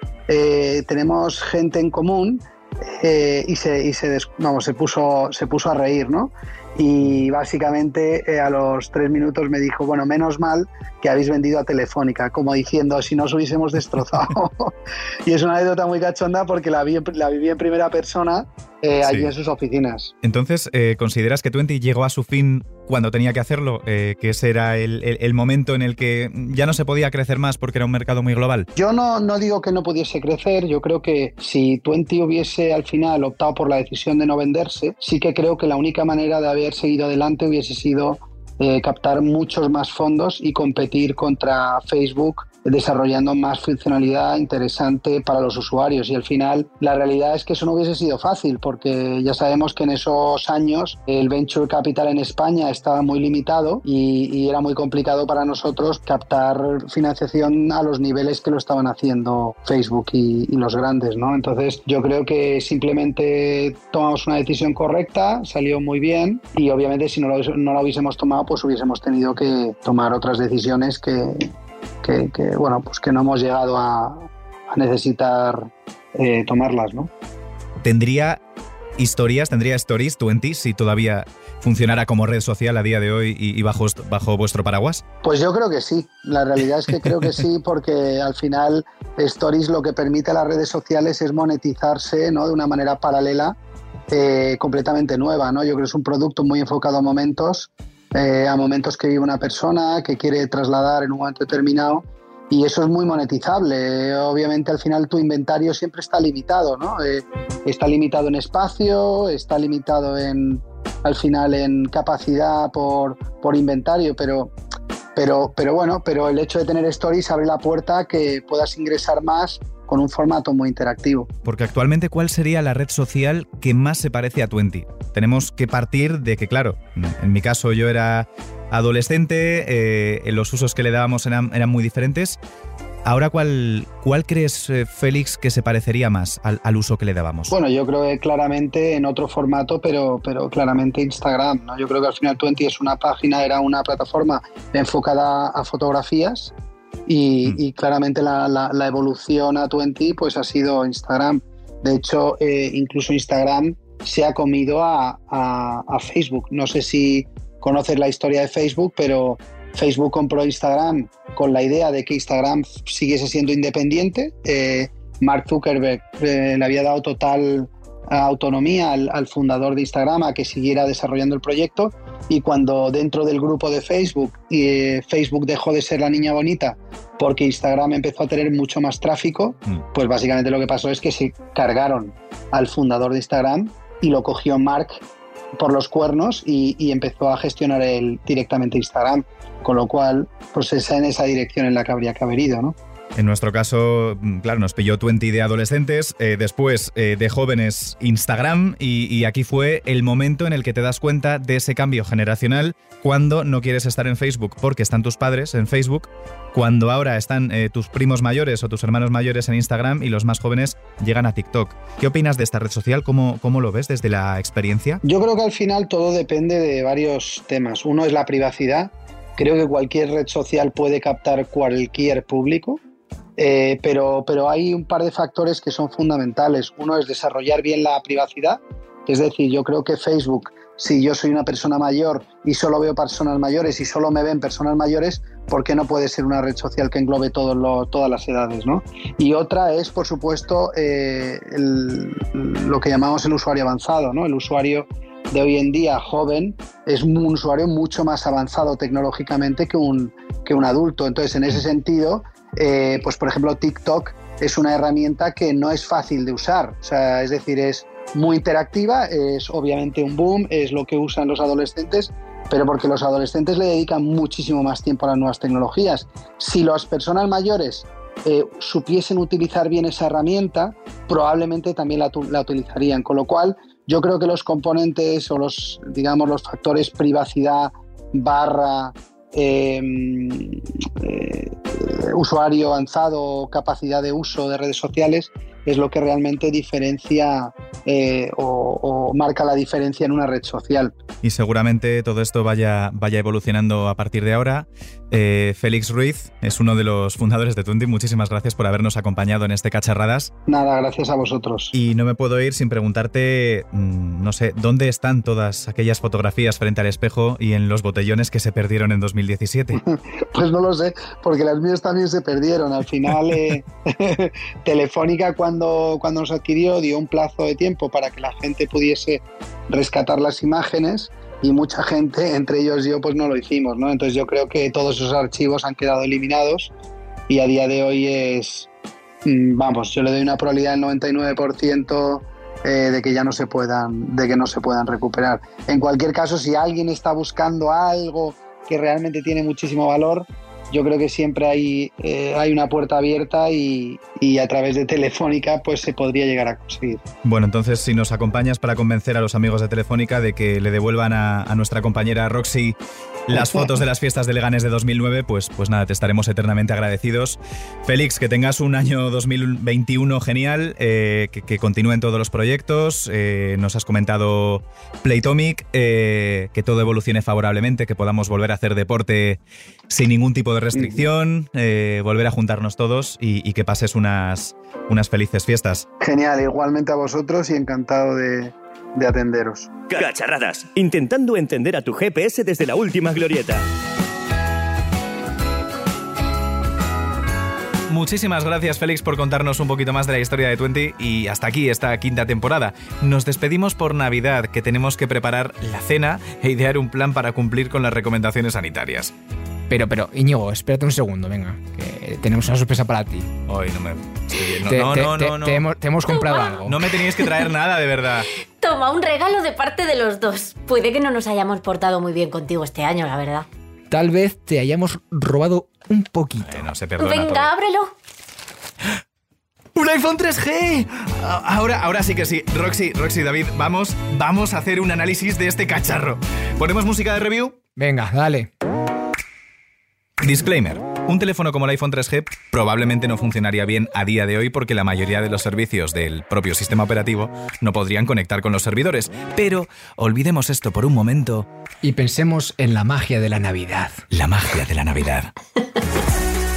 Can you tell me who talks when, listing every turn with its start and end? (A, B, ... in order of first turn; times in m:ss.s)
0:00.3-0:14.7 A
0:15.2-0:20.1 A
0:19.0-0:19.3 B
0:20.2-0:28.7 B
0:28.8-1:11.5 A
1:12.0-1:17.1 A
1:17.8-1:18.4 B
1:19.0-1:25.0 B
1:25.2-1:33.6 A
1:34.1-1:54.5 A
1:55.2-2:01.3 A
2:01.4-2:12.4 B
2:13.0-2:17.5 B
2:17.5-2:26.5 A
2:27.1-3:05.0 A
3:05.6-3:12.8 A
3:13.2-3:35.0 B
3:35.0-3:42.8 A
3:43.4-4:50.9 A
4:51.2-5:00.3 B
5:00.5-5:01.7 A
5:01.7-5:09.8 B
5:09.8-5:26.7 A
5:27.3-5:28.7 A
5:29.2-5:47.0 A
5:47.2-5:52.8 B
5:53.3-6:15.8 B
5:53.3-5:53.7 A
6:10.7-6:11.0 A
6:16.0-6:19.7 A
6:19.9-6:23.6 C
6:27.9-6:39.1 B
6:39.7-6:43.3 D
6:43.5-6:45.6 B
6:44.7-6:46.8 D
6:46.1-6:46.6 E
6:46.6-6:48.3 B
6:48.6-6:53.4 E
6:53.9-6:56.6 D
6:56.5-6:57.5 B
6:57.0-6:57.9 E
6:59.7-7:07.6 B
7:07.8-7:08.5 D
7:10.2-7:21.5 B
7:21.8-7:24.0 D
7:24.1-7:25.3 B